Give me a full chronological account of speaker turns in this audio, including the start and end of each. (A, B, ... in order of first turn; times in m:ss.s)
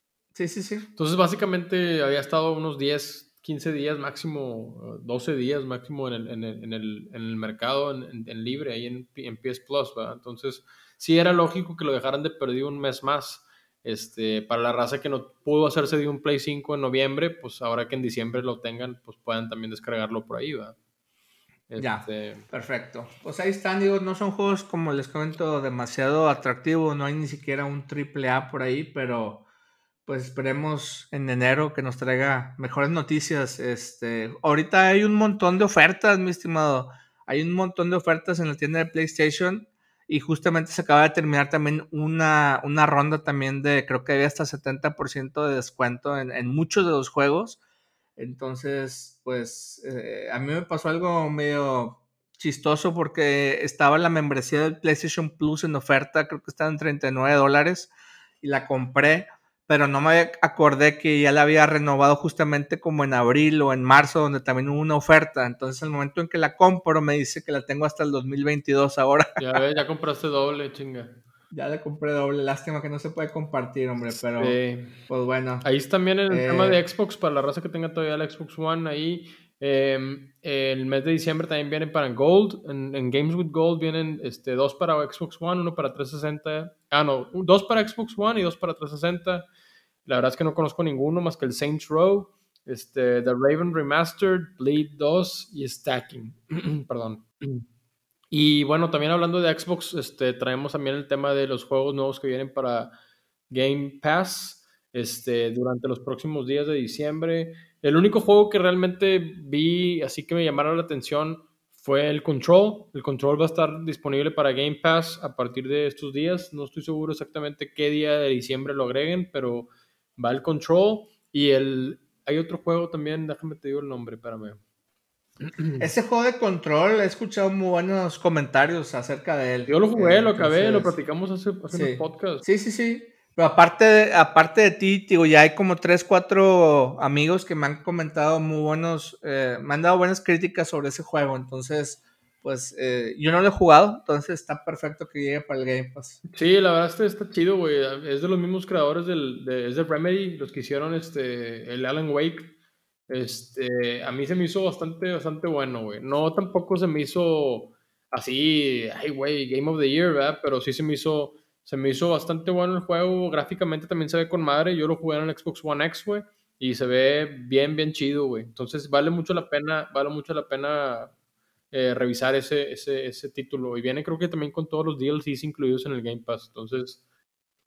0:00.3-0:00.9 A
0:01.0-0:20.8 B
0:21.7-0:22.4 B
0:21.8-0:29.4 A
0:30.1-0:47.6 A
0:48.2-1:09.6 A
1:09.4-1:11.2 B
1:11.5-1:14.6 A
1:14.1-1:15.0 B
1:15.1-1:15.7 A
1:15.6-1:29.5 B
1:16.3-1:16.8 A
1:30.1-1:37.6 B
1:38.3-1:42.9 B
1:43.5-2:04.6 B
2:05.4-2:05.8 B
2:05.8-2:11.0 A
2:09.7-2:12.4 B
2:11.7-2:26.2 A
2:26.3-2:32.5 B
2:33.1-2:51.1 B
2:51.7-2:57.0 B